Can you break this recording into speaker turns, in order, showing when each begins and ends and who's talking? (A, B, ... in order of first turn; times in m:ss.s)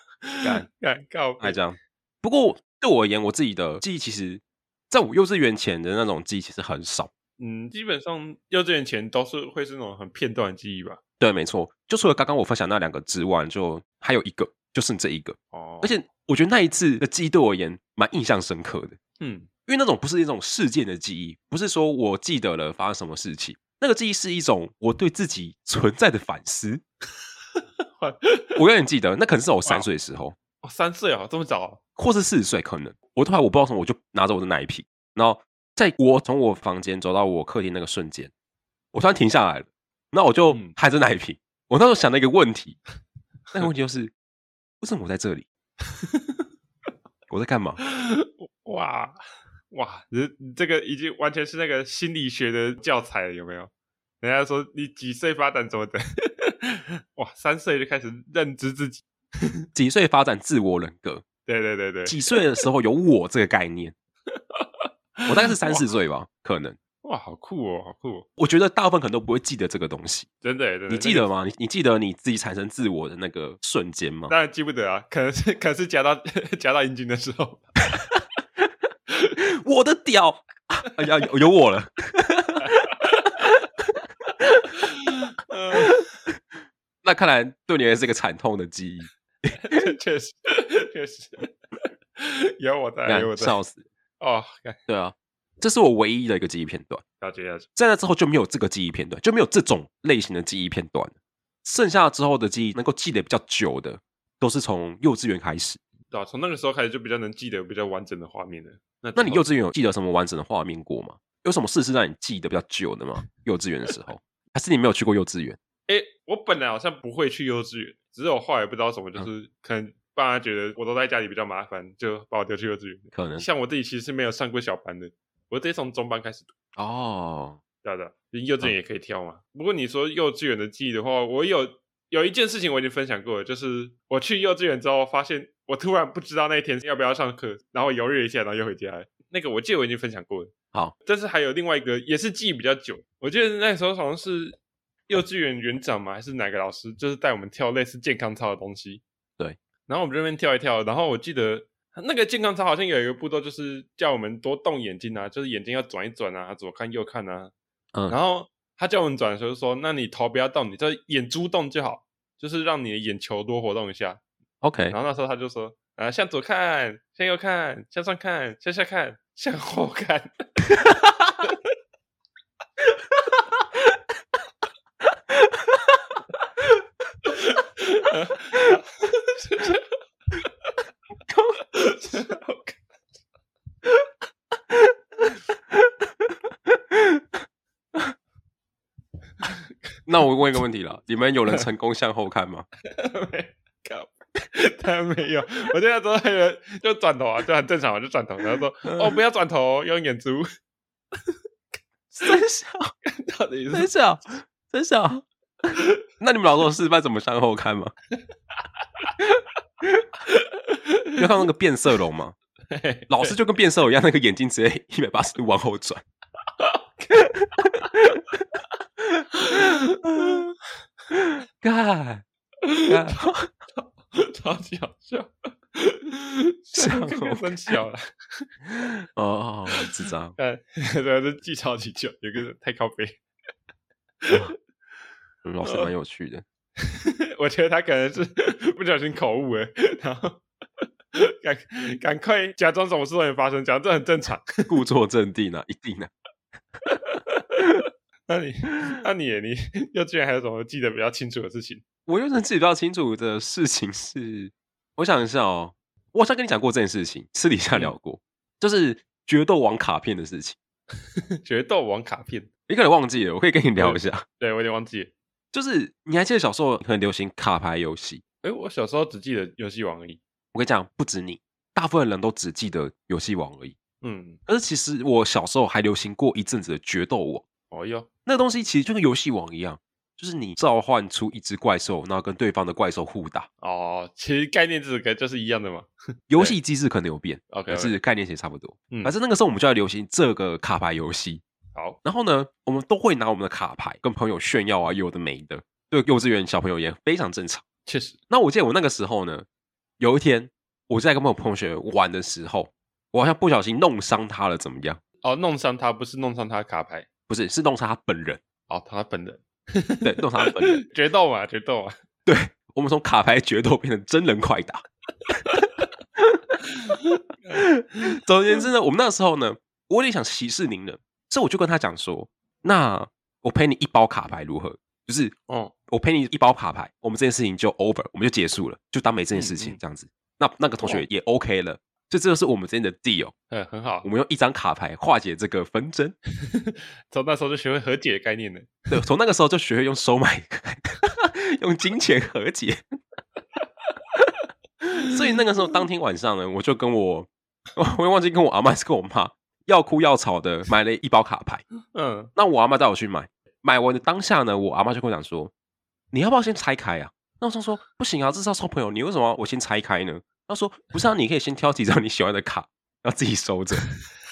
0:00.2-0:01.6 A
0:01.4-0:07.1 B
0:07.4-0:11.0 A
0:11.2-0:19.0 B
0:15.5-0:15.9 A
0:19.2-0:19.5 A
0:19.7-0:26.8 B
0:28.0-0:28.6 A
0:28.6-0:30.3 B
0:30.6-0:31.8 A
0:32.0-0:38.3 B
0:38.9-0:42.8 B
0:40.5-0:40.7 A
0:43.5-0:44.1 B
0:44.8-0:45.4 B
0:47.3-0:47.8 B
0:47.8-0:49.2 A
0:49.7-0:53.7 A
0:54.2-0:59.6 A
0:59.7-1:01.2 B
1:01.5-1:02.3 A
1:02.0-1:03.9 B
1:04.6-1:05.9 A
1:05.3-1:06.8 B
1:07.0-1:08.3 A
1:08.4-1:10.3 B
1:10.4-1:11.3 A
1:10.9-1:14.3 B
1:14.3-1:17.7 A
1:19.4-1:23.5 B
1:22.6-1:23.3 A
1:24.4-1:24.7 B
1:24.8-1:26.0 A
1:27.0-1:29.9 B
1:29.6-1:31.5 A
1:32.2-1:33.6 A
1:33.0-1:33.8 B
1:34.2-1:34.8 A
1:34.9-1:37.0 B
1:37.2-1:37.7 A
1:37.8-1:41.1 B
1:41.6-1:45.8 B
1:46.1-1:49.4 A
1:49.2-1:55.6 B
1:55.9-2:06.5 A
2:03.1-2:03.4 B
2:06.8-2:07.6 B
2:07.8-2:20.5 A
2:21.0-2:24.6 A
2:25.1-2:29.0 A
2:29.9-2:37.5 A
2:38.1-2:44.2 A
2:44.6-2:45.0 B
2:44.9-2:50.3 A
2:57.2-2:59.9 A
3:01.3-3:01.6 B
3:01.7-3:02.8 A
3:06.9-3:07.2 B
3:10.0-3:12.6 B
3:12.9-3:20.5 A
3:18.9-3:19.1 B
3:22.2-3:22.9 B
3:23.0-3:23.9 A
3:23.7-3:25.2 B
3:26.2-3:27.9 B
3:30.3-3:31.1 A
3:31.2-3:32.3 B
3:32.7-3:33.4 A
3:33.1-3:36.0 B
3:36.6-3:37.3 A
3:37.3-3:38.2 B
3:39.1-3:40.4 B
3:39.4-3:40.5 A
3:41.1-3:42.2 B
3:42.6-3:43.2 A
3:42.9-3:43.5 B
3:44.1-3:48.5 A
3:46.7-3:47.7 B
3:48.8-3:50.3 B
3:49.7-3:53.2 A
3:54.2-3:54.5 A
3:55.4-3:56.4 B
3:55.6-3:55.9 A
3:56.8-4:00.4 A
4:01.1-4:04.8 A
4:04.7-4:06.1 B
4:07.0-4:11.8 A
4:12.1-4:20.6 B
4:21.4-4:22.5 A
4:22.7-4:24.2 B
4:23.8-4:25.1 A
4:25.5-4:28.2 B
4:28.4-4:30.2 A
4:30.5-4:33.7 B
4:34.0-4:34.4 A
4:34.4-4:37.4 B
4:37.7-4:38.1 A
4:38.2-4:43.5 B
4:43.6-4:46.6 A
4:46.3-4:51.4 B
4:47.5-4:48.0 A
4:48.9-4:49.2 A
4:52.0-4:57.6 B
4:57.8-4:58.2 A
4:58.3-4:59.4 B
5:00.0-5:05.0 B
5:05.2-5:07.1 A
5:07.3-5:08.4 B
5:08.7-5:12.0 A
5:10.0-5:10.8 B
5:12.2-5:14.8 B
5:16.2-5:16.5 B
5:16.9-5:18.1 A
5:17.6-5:25.3 B
5:25.5-5:25.7 A
5:25.9-5:33.3 B
5:29.3-5:29.8 A
5:33.5-5:34.0 A
5:34.0-5:36.2 B
5:36.4-5:38.8 A
5:38.9-5:42.8 B
5:44.8-5:51.6 B
5:51.9-5:52.3 A
5:52.4-5:55.5 B
5:56.1-6:03.9 B